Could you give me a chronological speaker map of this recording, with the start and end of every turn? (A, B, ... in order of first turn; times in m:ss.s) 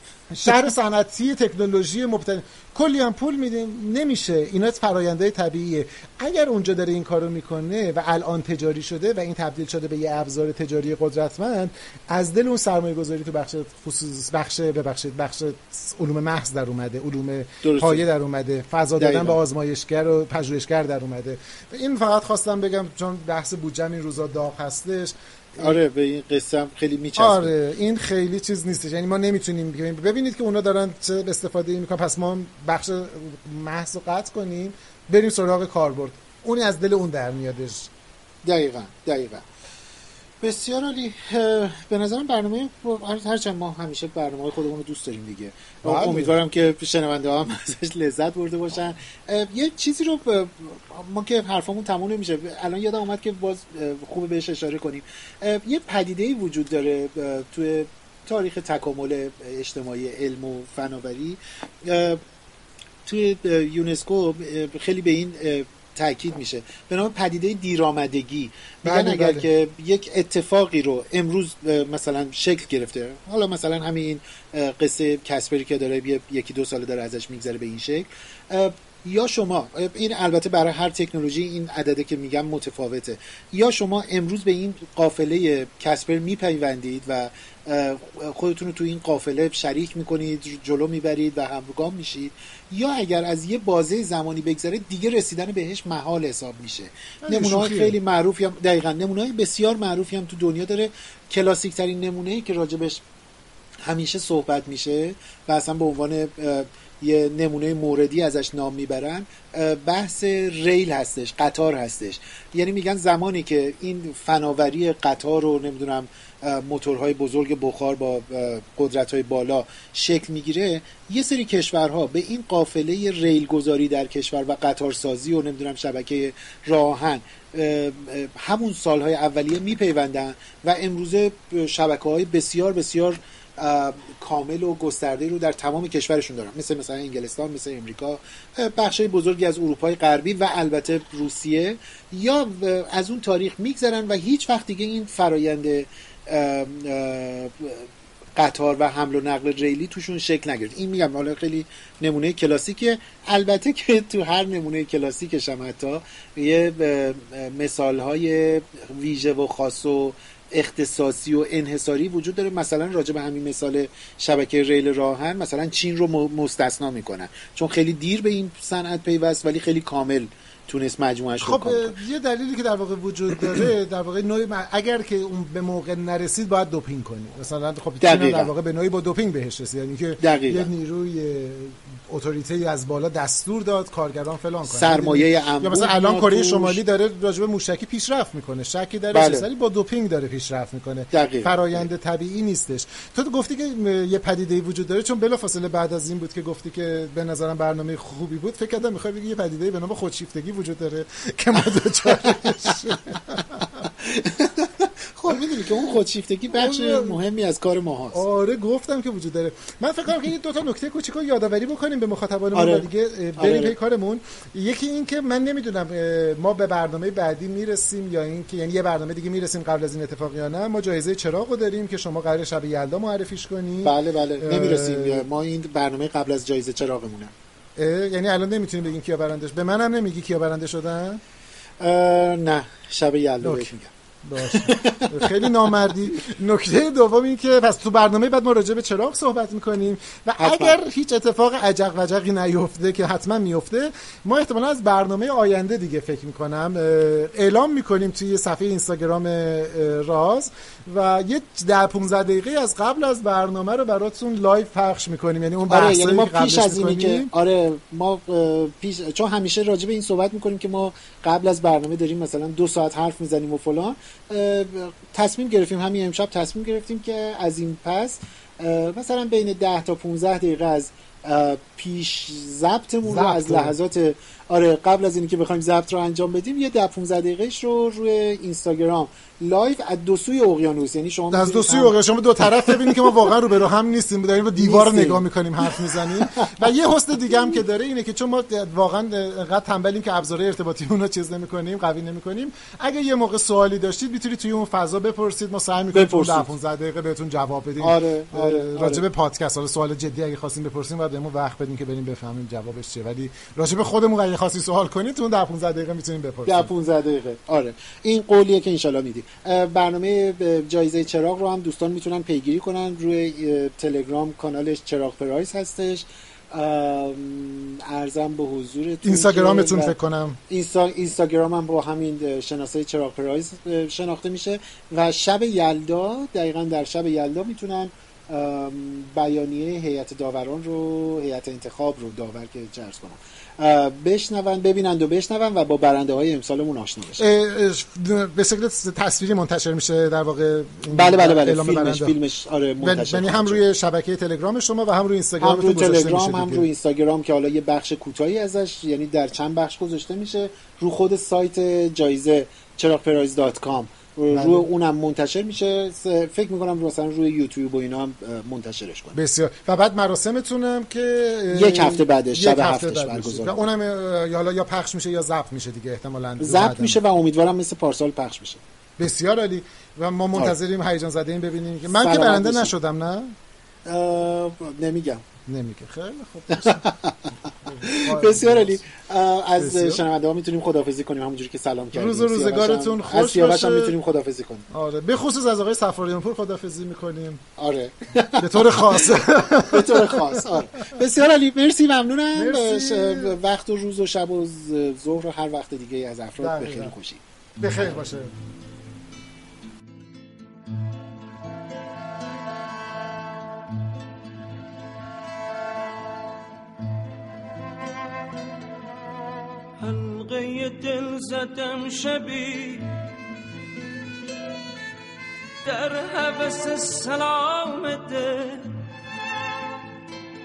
0:00.3-0:25.8 A
0:17.6-0:18.0 B
0:19.0-0:19.4 B
0:25.6-0:27.5 B
0:27.2-0:37.9 A
0:38.4-0:39.4 B
0:40.4-1:02.2 B
0:45.8-0:46.4 A
1:03.0-1:43.0 B
1:08.8-1:09.5 A
1:37.2-1:38.0 A
1:43.8-2:51.9 B
2:51.4-3:23.9 A
2:58.0-2:58.5 B
3:00.2-3:00.7 B
3:04.7-3:06.8 B
3:09.1-3:09.5 B
3:11.1-3:11.8 B
3:22.3-3:22.6 B
3:24.0-3:28.2 B
3:26.5-3:27.2 A
3:28.1-3:45.2 A
3:32.5-3:33.7 B
3:43.8-3:47.3 B
3:47.8-3:51.2 A
3:51.8-3:53.9 B
3:53.4-3:53.7 A
3:54.2-4:17.3 A
3:54.4-3:55.4 B
4:00.4-4:00.8 B
4:15.7-4:43.3 B
4:33.1-4:33.7 A
4:41.3-5:06.7 A
4:44.6-4:46.7 B
4:55.9-4:56.5 B
4:57.8-4:59.0 B
5:06.5-5:20.0 B
5:19.0-5:20.4 A
5:20.5-5:37.3 B
5:37.2-5:42.2 A
5:40.9-5:43.6 B
5:42.8-5:46.7 A
5:45.4-5:59.2 B
5:54.3-5:54.7 A
5:59.2-6:07.0 A
6:01.5-6:03.6 B
6:06.4-6:08.6 B
6:09.0-6:13.4 A
6:11.9-6:12.7 B
6:13.9-6:15.2 B
6:15.5-6:16.9 A
6:16.5-6:24.7 B
6:17.5-6:18.8 A
6:19.6-6:20.0 A
6:21.9-6:24.0 A
6:24.7-6:27.4 A
6:27.6-6:29.1 B
6:28.4-6:30.6 A
6:29.7-6:37.2 B
6:32.4-6:33.4 A
6:36.4-6:37.0 A
6:37.6-6:38.3 A
6:49.8-6:53.0 C
6:55.6-6:58.8 C